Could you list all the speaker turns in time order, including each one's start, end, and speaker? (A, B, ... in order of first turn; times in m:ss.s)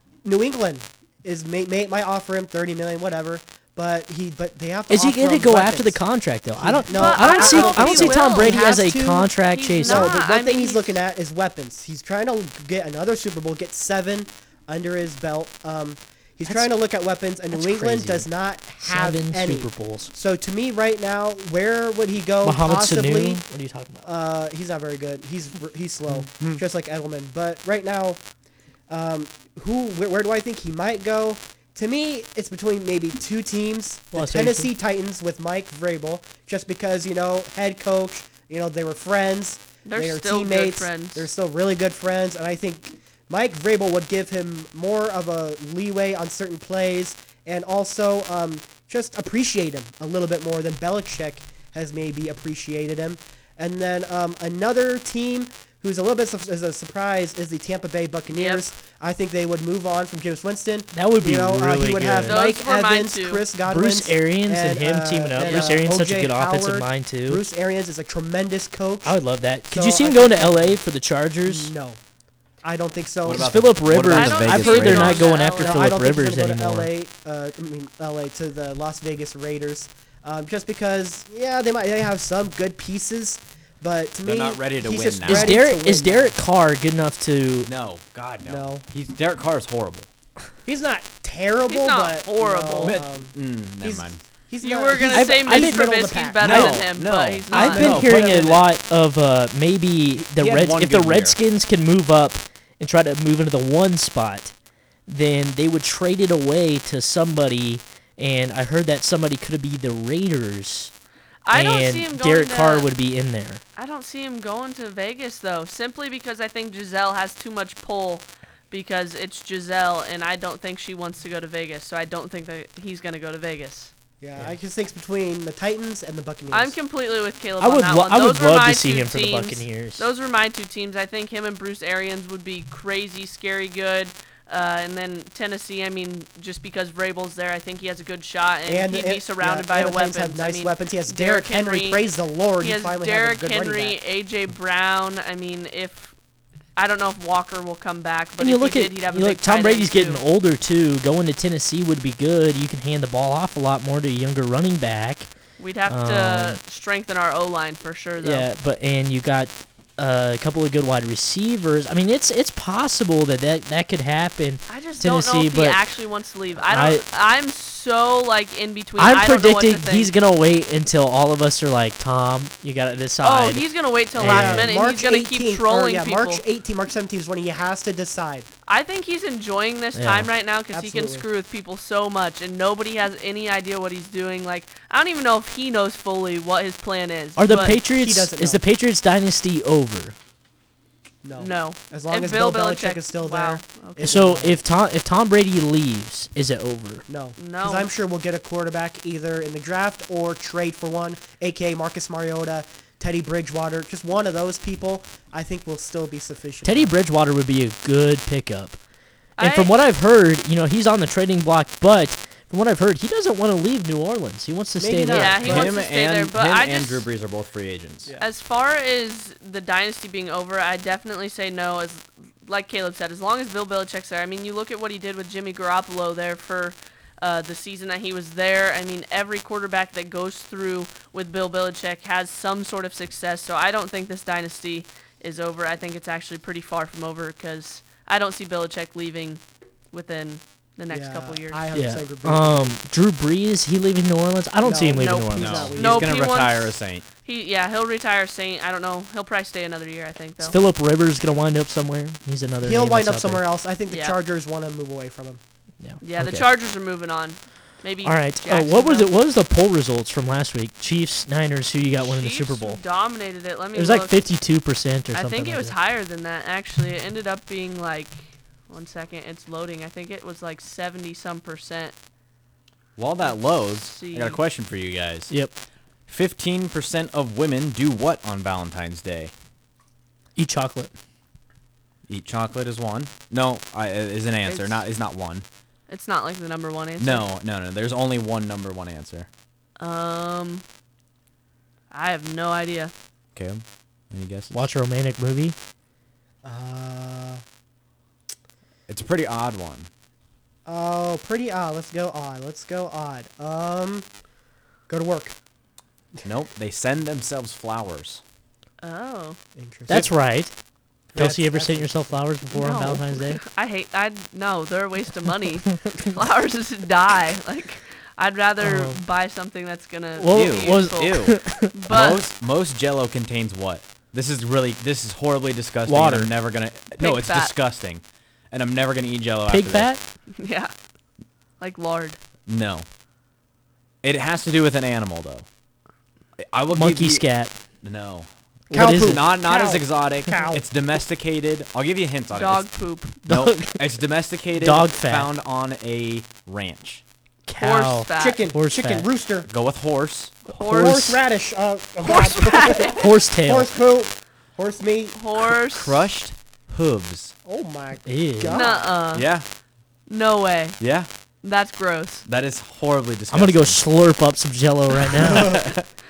0:00.2-0:06.0 A
0:04.9-0:10.2 B
0:06.6-0:23.4 A
0:06.9-0:08.9 C
0:09.5-0:11.0 C
0:16.4-0:16.7 B
0:17.5-0:18.3 B
0:18.8-0:20.1 B
0:22.4-0:24.1 B
0:24.0-0:28.2 A
0:26.1-0:26.6 B
0:28.9-1:09.2 A
0:34.1-0:34.7 B
0:39.8-0:41.3 C
0:58.3-0:58.7 C
1:00.9-1:02.4 B
1:02.2-1:03.4 C
1:03.6-1:07.4 B
1:05.4-1:05.8 C
1:09.0-1:11.7 B
1:09.7-1:10.8 A
1:11.4-1:12.0 A
1:12.6-1:13.6 A
1:13.2-1:15.3 D
1:13.3-1:16.9 B
1:14.1-1:15.9 C
1:14.9-1:26.4 A
1:24.2-1:25.6 D
1:25.2-1:27.7 B
1:27.7-1:30.1 D
1:28.4-1:28.8 A
1:30.7-1:36.9 A
1:31.7-1:33.0 C
1:32.8-1:34.2 D
1:34.6-1:38.0 C
1:35.1-1:36.9 B
1:36.4-1:38.5 D
1:37.5-1:44.5 B
1:37.5-1:38.6 A
1:40.3-1:41.4 D
1:45.1-1:50.9 B
1:51.5-1:52.9 C
1:51.5-1:53.6 B
1:53.8-2:03.9 C
2:04.2-2:06.8 A
2:06.5-2:22.0 C
2:07.6-2:10.1 B
2:18.7-2:24.0 A
2:22.6-2:26.2 C
2:26.8-2:30.2 C
2:28.4-2:35.3 B
2:35.6-2:38.5 C
2:35.9-2:36.6 B
2:38.2-2:45.8 B
2:44.7-2:50.1 C
2:46.6-2:47.0 B
2:49.0-2:54.8 B
2:53.2-2:56.4 C
2:54.2-2:58.5 A
2:58.7-3:07.8 C
3:00.0-3:00.3 B
3:00.7-3:01.3 A
3:07.4-3:10.2 B
3:07.8-3:08.6 A
3:11.2-3:14.6 A
3:11.4-3:14.3 C
3:14.0-3:17.0 B
3:17.1-3:26.9 A
3:17.4-3:17.9 C
3:26.6-3:28.8 B
3:29.4-3:29.8 C
3:29.4-3:35.7 B
3:34.8-3:35.7 A
3:35.1-3:37.1 C
3:35.4-3:38.1 D
3:38.2-3:59.4 C
3:59.9-4:01.6 C
4:00.9-4:02.8 A
4:01.7-4:05.8 B
4:04.6-4:06.1 A
4:05.0-4:10.6 C
4:05.4-4:07.0 D
4:10.4-4:13.4 B
4:12.6-4:15.4 A
4:13.9-4:14.2 C
4:15.8-4:16.4 B
4:16.0-4:19.1 C
4:18.0-4:22.8 B
4:22.0-4:24.2 C
4:23.8-4:25.8 B
4:25.1-4:31.9 C
4:33.0-4:35.3 D
4:33.2-4:34.4 C
4:35.3-4:35.6 B
4:36.1-4:39.3 D
4:40.4-4:40.9 B
4:42.1-4:45.4 D
4:44.5-4:44.8 C
4:45.9-4:47.3 C
4:47.0-4:49.3 D
4:49.8-4:50.6 C
4:51.9-4:52.9 C
4:53.4-4:54.5 D
4:54.5-4:55.6 B
4:56.4-4:57.4 A
4:58.9-4:59.9 D
5:00.7-5:04.1 A
5:04.9-5:05.4 A
5:06.2-5:08.2 D
5:08.8-5:09.4 C
5:09.6-5:10.1 A
5:09.9-5:10.5 B
5:11.1-5:12.1 A
5:11.2-5:13.4 B
5:12.5-5:22.2 C
5:15.8-5:16.1 B
5:18.6-5:19.0 B
5:20.2-5:21.7 B
5:20.2-5:21.4 D
5:21.9-5:29.9 D
5:25.9-5:26.3 B
5:27.0-5:27.6 C
5:29.5-5:30.0 B
5:30.4-5:30.7 C
5:31.6-5:32.2 C
5:32.5-5:32.9 D
5:34.0-5:35.5 D
5:36.4-5:37.2 D
5:36.7-5:37.5 B
5:37.8-5:42.7 D
5:38.7-5:39.2 B
5:38.7-5:40.6 A
5:42.3-5:43.2 C
5:43.3-5:43.8 B
5:43.3-5:47.0 D
5:44.5-5:45.3 B
5:47.5-5:49.1 B
5:47.6-5:48.4 C
5:48.2-5:49.5 A
5:49.5-5:50.4 D
5:50.5-5:51.1 C
5:50.6-5:51.2 B
5:50.7-5:55.2 A
5:52.0-5:53.0 C
5:52.9-5:53.7 B
5:55.2-5:56.0 C
5:55.4-5:57.3 D
5:57.4-5:58.9 A
5:58.1-5:58.6 B
5:58.5-5:59.3 C
5:59.1-5:59.4 D
6:00.1-6:00.8 C
6:00.8-6:01.1 D
6:01.4-6:02.2 C
6:02.3-6:03.8 D
6:03.3-6:05.6 B
6:05.1-6:05.8 D
6:05.2-6:05.7 A